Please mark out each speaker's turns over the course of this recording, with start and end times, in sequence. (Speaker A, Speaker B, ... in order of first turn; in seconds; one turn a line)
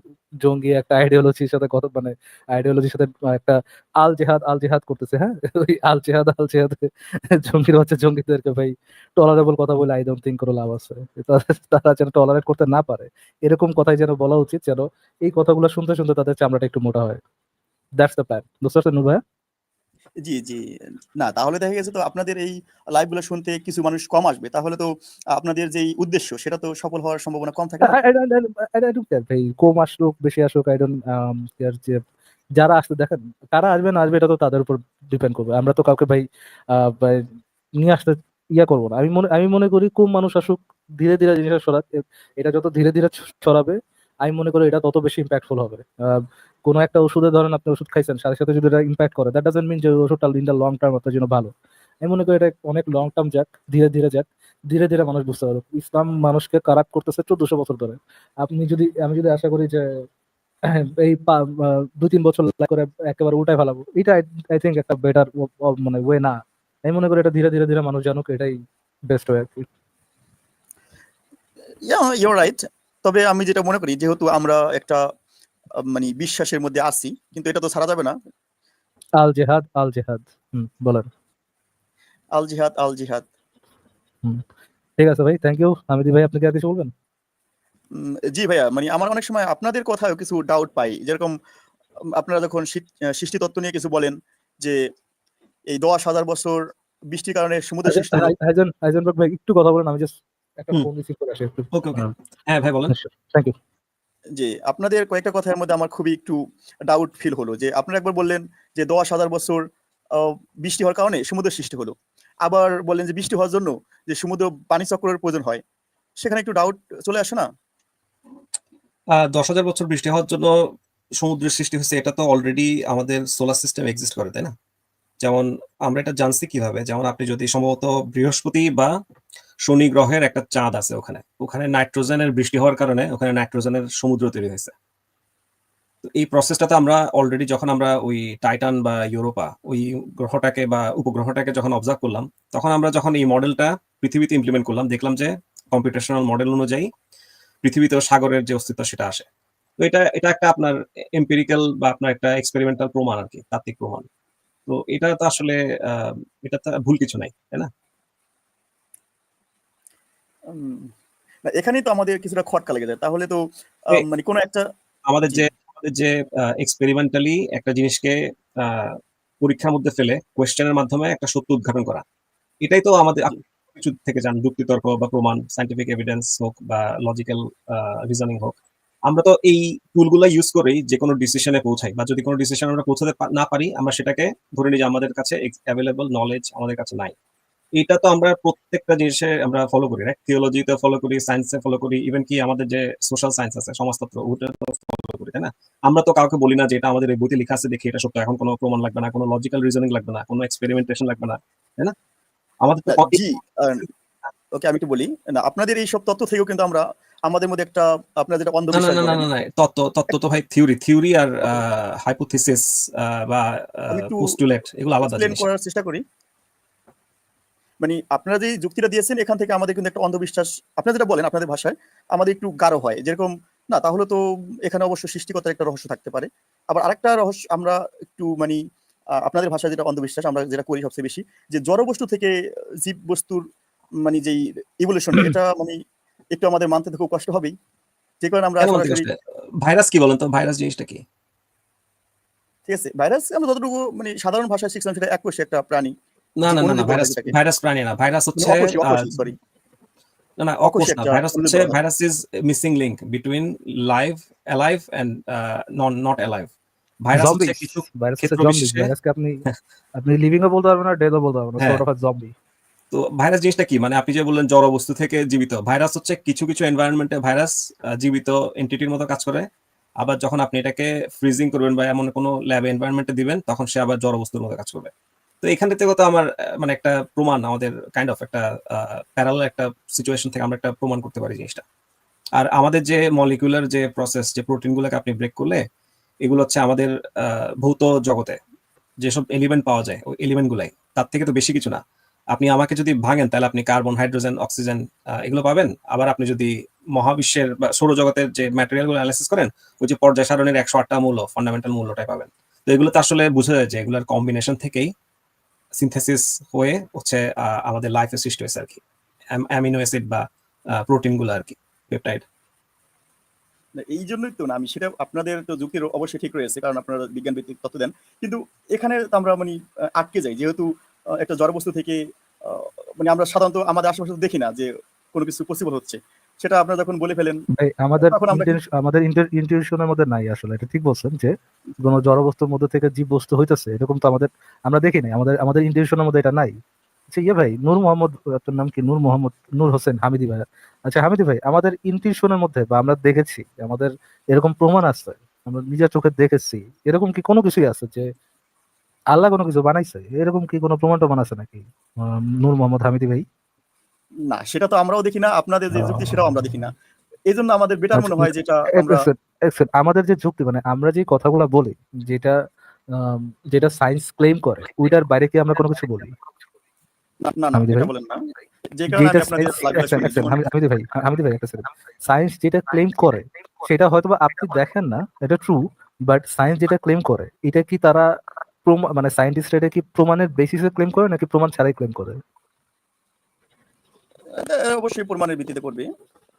Speaker A: 0.4-17.2
Speaker A: 18.0-19.2
Speaker B: 20.2-20.6
Speaker B: 21.2-28.0
Speaker A: 27.8-32.0
Speaker A: 32.6-37.2
Speaker A: 37.8-59.8
Speaker A: 60.7-66.3
Speaker A: 66.8-68.5
Speaker A: 69.1-69.7
Speaker B: 71.8-75.0
Speaker B: 75.9-78.1
Speaker A: 79.2-81.1
Speaker B: 82.3-83.2
Speaker A: 85.0-86.9
Speaker B: 87.9-91.3
Speaker B: 92.1-94.8
Speaker B: 95.7-96.6
Speaker B: 97.1-98.3
Speaker A: 97.9-102.0
Speaker C: 101.7-102.9
Speaker A: 102.9-103.5
Speaker B: 104.4-109.6
Speaker B: 110.1-115.6
Speaker B: 116.2-117.4
Speaker C: 119.2-120.5
Speaker C: 121.2-124.5
Speaker C: 125.2-128.9
Speaker C: 129.7-134.7
Speaker C: 136.0-146.9
Speaker C: 147.6-149.2
Speaker C: 149.8-154.0
Speaker C: 154.7-157.7
Speaker B: 160.5-160.9
Speaker B: 161.5-164.6
Speaker C: 165.1-168.9
Speaker C: 169.4-172.0
Speaker C: 172.6-187.1
Speaker C: 187.8-201.9
Speaker C: 202.6-203.2
Speaker B: 202.9-203.8
Speaker B: 204.5-209.2
Speaker C: 208.7-215.4
Speaker B: 213.9-214.3
Speaker B: 215.1-216.0
Speaker B: 217.8-228.6
Speaker B: 229.2-233.4
Speaker B: 234.0-235.8
Speaker B: 236.3-237.5
Speaker B: 238.2-239.1
Speaker C: 238.6-241.0
Speaker B: 242.7-245.9
Speaker C: 246.4-249.1
Speaker B: 246.4-247.3
Speaker B: 248.4-249.3
Speaker C: 250.4-256.5
Speaker B: 250.6-251.8
Speaker C: 257.0-258.9
Speaker A: 257.1-259.4
Speaker A: 259.9-262.3
Speaker C: 262.9-269.4
Speaker C: 270.0-274.9
Speaker C: 275.4-281.6
Speaker C: 282.4-285.6
Speaker C: 286.2-288.4
Speaker C: 289.0-291.8
Speaker C: 292.3-304.9
Speaker C: 305.8-308.8
Speaker C: 309.3-310.2
Speaker C: 310.8-312.2
Speaker B: 313.8-320.6
Speaker B: 321.2-327.4
Speaker A: 327.6-336.6
Speaker B: 328.0-328.6
Speaker A: 337.1-348.1
Speaker A: 349.1-353.2
Speaker B: 354.3-356.7
Speaker A: 355.8-356.1
Speaker B: 357.3-359.0
Speaker A: 357.9-362.4
Speaker A: 362.9-366.1
Speaker B: 367.2-368.2
Speaker A: 367.5-367.9
Speaker B: 368.7-370.4
Speaker A: 368.9-378.1
Speaker A: 378.6-382.2
Speaker B: 384.3-385.9